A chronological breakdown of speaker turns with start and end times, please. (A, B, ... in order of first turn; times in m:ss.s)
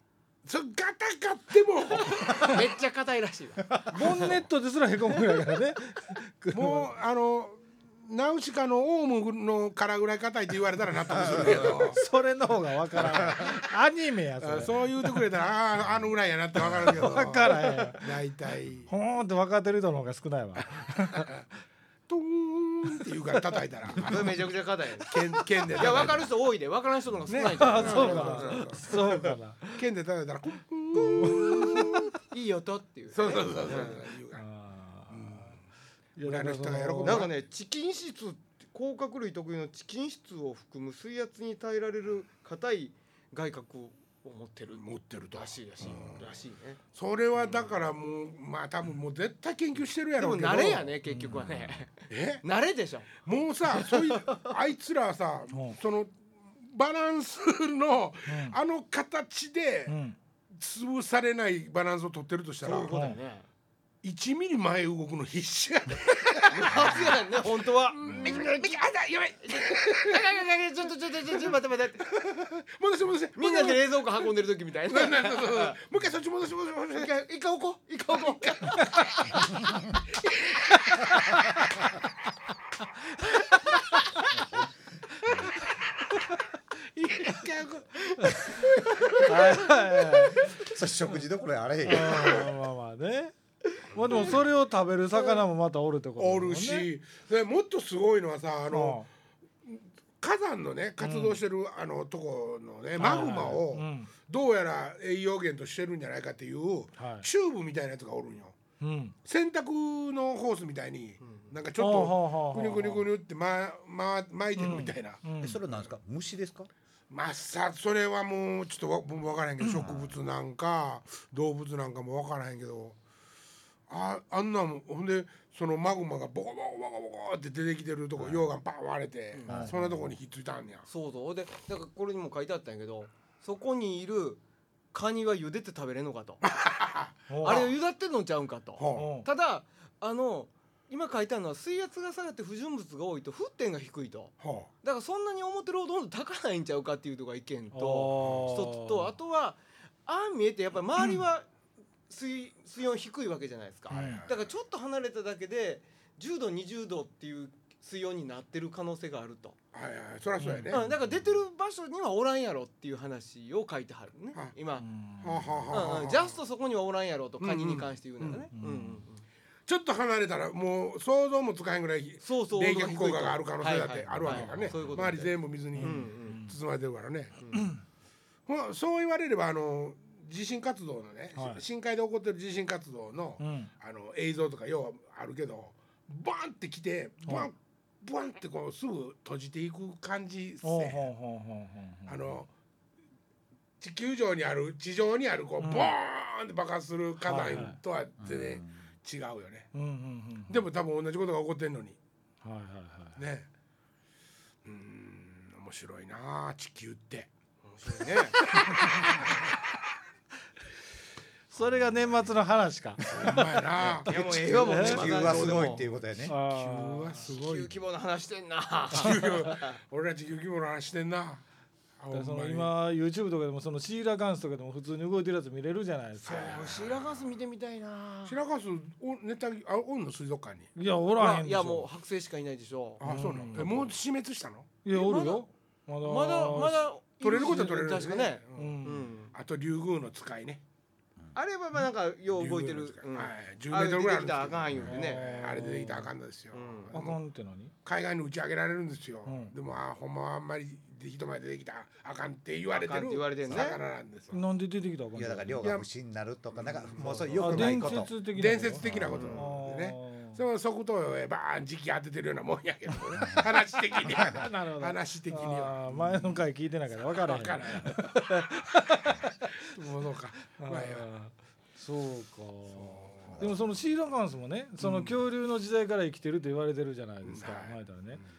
0:00.4-0:02.7 A
0:02.3-0:04.3 B
0:03.9-0:06.9 C
0:06.5-0:12.0 A
0:11.3-0:15.3 C
0:13.0-0:13.5 A
0:14.4-0:18.9 A
0:16.6-0:18.1 C
0:18.9-0:21.3 C
0:22.1-0:24.4 A
0:24.0-0:25.1 B
0:25.0-0:26.3 A
0:25.7-0:29.2 B
0:27.3-0:32.2 A
0:27.4-0:29.7 C
0:31.0-0:31.9 C
0:31.0-0:34.0 B
0:33.1-0:34.4 A
0:33.7-0:35.6 C
0:35.1-0:35.6 A
0:36.2-0:37.3 C
0:36.2-0:37.3 A
0:37.0-0:46.8 B
0:44.7-0:46.3 A
0:46.9-0:50.9 A
0:50.2-0:53.1 B
0:51.0-0:51.8 C
0:52.1-0:52.4 A
0:53.2-1:00.0 A
0:53.7-0:54.5 B
0:55.5-0:55.8 C
0:58.3-0:58.6 C
0:59.9-1:00.2 C
1:00.5-1:03.0 A
1:02.6-1:03.5 B
1:02.9-1:03.2 C
1:04.0-1:10.2 A
1:06.5-1:08.8 B
1:09.4-1:12.0 B
1:11.2-1:14.2 A
1:13.4-1:15.8 B
1:14.9-1:17.1 A
1:16.9-1:18.9 B
1:18.4-1:19.4 A
1:20.3-1:21.0 A
1:24.3-1:24.7 D
1:27.0-1:30.5 B
1:27.1-1:28.6 A
1:29.1-1:30.5 C
1:30.4-1:32.5 D
1:31.8-1:33.3 C
1:33.9-1:36.9 C
1:34.1-1:34.4 A
1:36.2-1:39.0 A
1:38.7-1:39.1 C
1:39.6-1:48.6 A
1:41.0-1:41.4 C
1:43.0-1:44.1 C
1:47.0-1:47.3 C
1:48.8-1:49.1 C
1:49.2-1:55.9 A
1:51.2-1:51.5 B
1:51.8-1:53.1 C
1:54.6-1:55.6 C
1:55.4-1:56.7 D
1:57.1-2:03.0 A
1:59.7-2:00.1 D
2:03.9-2:10.9 A
2:08.2-2:08.5 D
2:09.3-2:09.6 B
2:09.5-2:10.1 D
2:10.9-2:14.4 B
2:14.9-2:16.4 B
2:16.4-2:17.7 A
2:17.3-2:17.7 C
2:17.4-2:31.5 B
2:18.8-2:19.1 A
2:18.9-2:19.3 C
2:24.4-2:24.7 A
2:27.7-2:29.1 C
2:32.1-2:39.6 B
2:33.9-2:34.2 C
2:33.9-2:34.5 A
2:39.7-2:40.8 A
2:40.4-2:40.9 C
2:40.7-2:44.8 B
2:44.8-2:45.6 C
2:45.2-2:46.4 A
2:45.7-2:49.2 B
2:47.4-2:48.5 A
2:48.6-2:49.0 C
2:49.7-2:57.4 A
2:52.2-2:56.4 B
2:54.2-2:55.0 C
2:55.7-2:56.5 C
2:57.4-2:57.7 B
2:57.5-2:57.8 C
2:58.5-3:11.1 A
3:01.4-3:01.6 C
3:03.4-3:03.7 C
3:07.2-3:07.5 C
3:10.6-3:12.3 C
3:12.1-3:12.5 A
3:13.8-3:19.7 A
3:15.6-3:15.9 C
3:17.2-3:17.8 C
3:18.2-3:18.7 D
3:19.7-3:20.6 C
3:20.5-3:22.0 A
3:22.4-3:23.2 C
3:23.2-3:23.5 A
3:24.6-3:27.3 A
3:27.7-3:28.4 B
3:28.4-3:29.5 A
3:31.5-3:33.4 C
3:33.1-3:35.7 A
3:34.0-3:35.9 B
3:34.0-3:36.4 D
3:34.5-3:35.6 C
3:36.2-3:37.1 C
3:36.3-3:37.7 A
3:37.2-3:39.7 B
3:38.9-3:41.4 A
3:42.0-3:42.7 A
3:42.1-3:46.8 C
3:46.2-3:48.4 B
3:46.3-3:47.2 A
3:48.2-3:50.7 A
3:50.8-3:51.8 C
3:51.2-3:53.8 B
3:53.0-3:54.7 A
3:53.0-3:53.9 C
3:54.8-3:56.8 C
3:54.9-3:55.4 B
3:56.0-3:59.3 B
3:57.2-4:00.6 A
3:58.5-3:59.1 C
4:01.3-4:05.2 B
4:02.3-4:07.2 A
4:04.8-4:06.1 C
4:06.5-4:06.9 B
4:06.9-4:07.7 C
4:07.8-4:14.4 A
4:09.2-4:09.5 C
4:12.7-4:13.8 B
4:14.3-4:15.7 C
4:15.1-4:18.1 D
4:15.6-4:15.9 A
4:16.5-4:26.4 A
4:17.0-4:20.4 C
4:18.8-4:19.3 D
4:19.1-4:19.5 B
4:24.0-4:29.6 C
4:27.1-4:31.0 A
4:30.5-4:38.2 C
4:32.7-4:33.5 A
4:34.8-4:35.2 A
4:37.2-4:38.2 A